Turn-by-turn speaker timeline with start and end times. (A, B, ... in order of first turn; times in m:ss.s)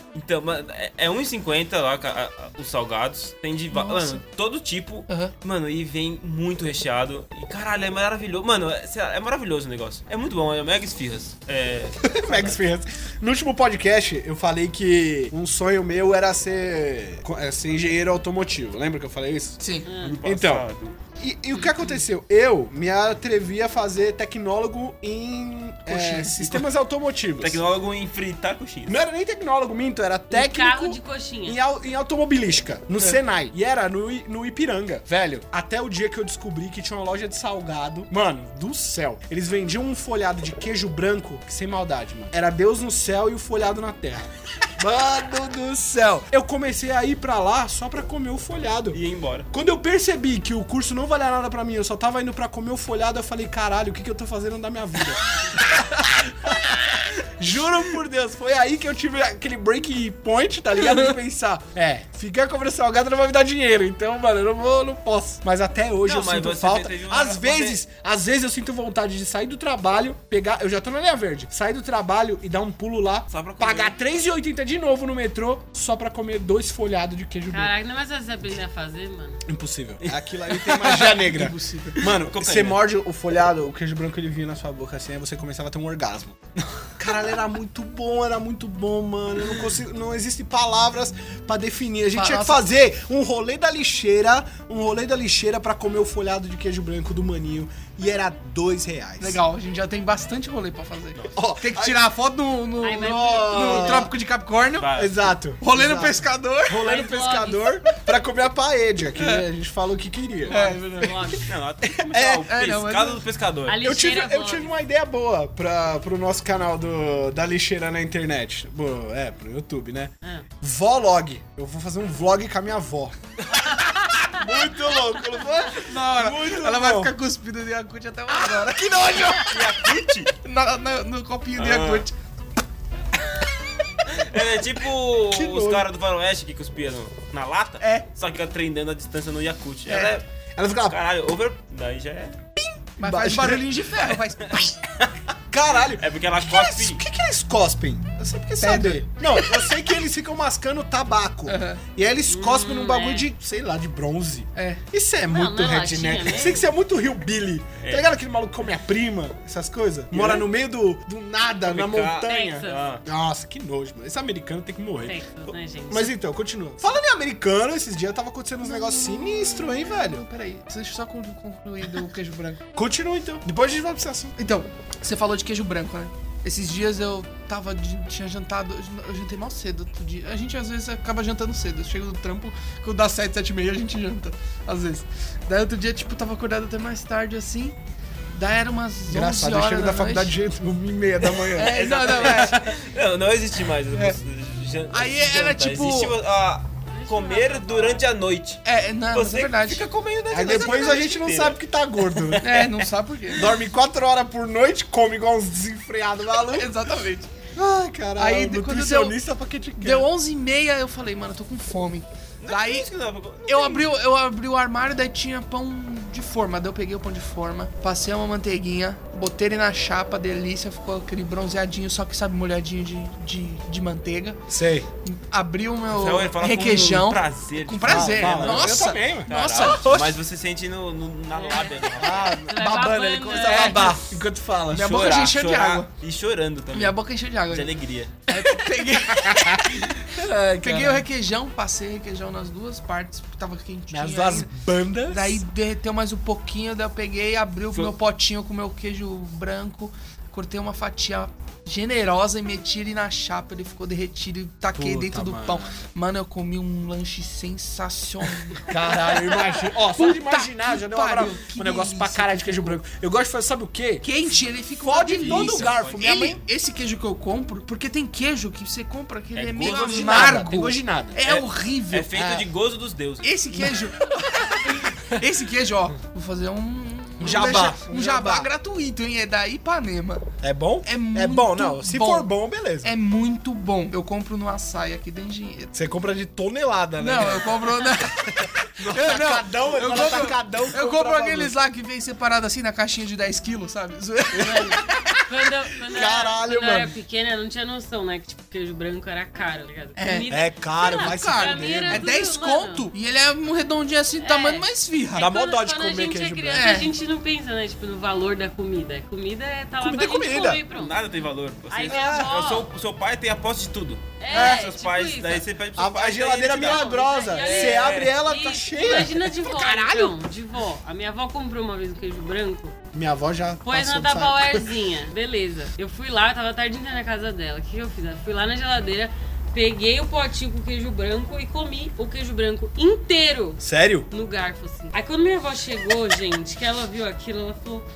0:00.1-0:12.6 A
0:03.7-0:04.2 B
0:05.1-0:05.3 B
0:12.0-0:19.6 C
0:19.6-0:19.9 B
0:19.8-0:20.2 D
0:20.0-0:21.0 A
0:20.2-0:20.6 C
0:21.2-0:27.6 C
0:21.6-0:21.8 D
0:25.9-0:26.6 B
0:27.4-0:29.0 A
0:28.9-0:49.0 C
0:30.3-0:31.6 D
0:48.9-0:49.5 A
0:49.5-0:55.8 C
0:56.4-1:17.7 C
1:00.8-1:01.1 B
1:06.0-1:07.8 A
1:13.3-1:13.9 A
1:17.5-1:19.4 D
1:19.5-1:26.4 C
1:20.6-1:22.0 B
1:20.7-1:21.0 A
1:22.0-1:22.8 A
1:27.0-1:39.4 C
1:32.1-1:32.6 B
1:39.2-1:44.9 B
1:41.3-1:42.0 C
1:42.8-1:44.1 D
1:43.0-1:44.1 C
1:44.8-1:45.3 A
1:44.9-1:50.7 C
1:45.6-1:46.9 B
1:46.8-1:47.8 D
1:49.1-1:49.4 B
1:50.4-1:51.5 D
1:50.5-1:51.3 B
1:51.5-1:53.8 A
1:51.9-1:52.5 C
1:52.5-1:53.2 B
1:53.7-1:54.7 D
1:53.8-2:03.1 C
2:04.3-2:07.1 C
2:05.8-2:09.7 B
2:09.4-2:10.3 A
2:10.4-2:12.1 B
2:11.5-2:12.1 A
2:14.1-2:20.2 A
2:15.3-2:15.8 C
2:17.8-2:18.0 B
2:20.6-2:21.0 C
2:20.9-2:22.4 A
2:22.6-2:23.7 C
2:23.0-2:24.7 B
2:24.1-2:25.1 A
2:25.5-2:45.2 C
2:25.8-2:27.0 A
2:28.6-2:29.1 B
2:31.5-2:31.8 B
2:32.3-2:33.3 D
2:34.5-2:34.8 B
2:35.3-2:36.7 D
2:37.8-2:38.1 A
2:40.1-2:40.5 A
2:41.7-2:43.0 A
2:42.3-2:42.8 D
2:45.0-2:46.1 D
2:45.9-2:50.2 C
2:48.6-2:52.6 B
2:52.7-2:54.4 C
2:54.4-3:07.8 B
3:08.3-3:10.4 B
3:09.1-3:12.5 C
3:11.3-3:22.6 A
3:11.5-3:12.8 B
3:14.9-3:16.1 B
3:16.9-3:18.0 D
3:18.6-3:19.9 B
3:20.3-3:22.7 C
3:20.4-3:21.0 D
3:22.4-3:23.5 B
3:23.3-3:27.0 C
3:26.5-3:27.3 B
3:27.5-3:30.1 C
3:28.2-3:29.2 B
3:29.8-3:32.9 B
3:32.4-3:33.9 A
3:33.4-3:44.4 B
3:44.5-3:44.9 C
3:45.0-3:50.1 B
3:45.9-3:52.5 A
3:47.8-3:50.1 C
3:51.3-3:54.0 D
3:52.0-3:55.1 C
3:53.4-3:55.9 B
3:54.8-3:58.1 A
3:56.7-3:57.7 B
3:58.3-4:00.0 B
3:58.3-4:01.0 C
4:00.6-4:04.5 B
4:03.9-4:05.4 C
4:05.1-4:22.8 B
4:14.7-4:15.7 C
4:18.6-4:24.1 C
4:24.0-4:32.2 B
4:24.8-4:26.4 C
4:25.2-4:26.0 A
4:29.4-4:30.4 A
4:29.6-4:31.2 C
4:31.2-4:33.8 A
4:32.1-4:32.4 C
4:33.2-4:40.3 B
4:37.2-4:38.5 C
4:40.4-4:42.9 C
4:40.8-4:42.3 B
4:42.8-4:45.7 B
4:45.7-4:51.5 C
4:47.0-4:55.2 B
4:54.4-5:02.9 D
4:54.4-4:54.8 C
4:55.9-4:56.9 C
5:00.0-5:00.3 B
5:00.3-5:02.1 C
5:00.8-5:05.3 B
5:04.2-5:11.0 D
5:05.2-5:06.7 C
5:06.5-5:06.9 B
5:09.8-5:10.6 C
5:10.7-5:18.2 A
5:11.7-5:12.7 D
5:11.9-5:12.3 C
5:14.2-5:15.4 D
5:14.3-5:14.7 C
5:15.8-5:19.6 C
5:16.5-5:22.7 D
5:19.5-5:20.1 B
5:22.9-5:24.7 C
5:23.6-5:37.8 D
5:33.6-5:34.1 C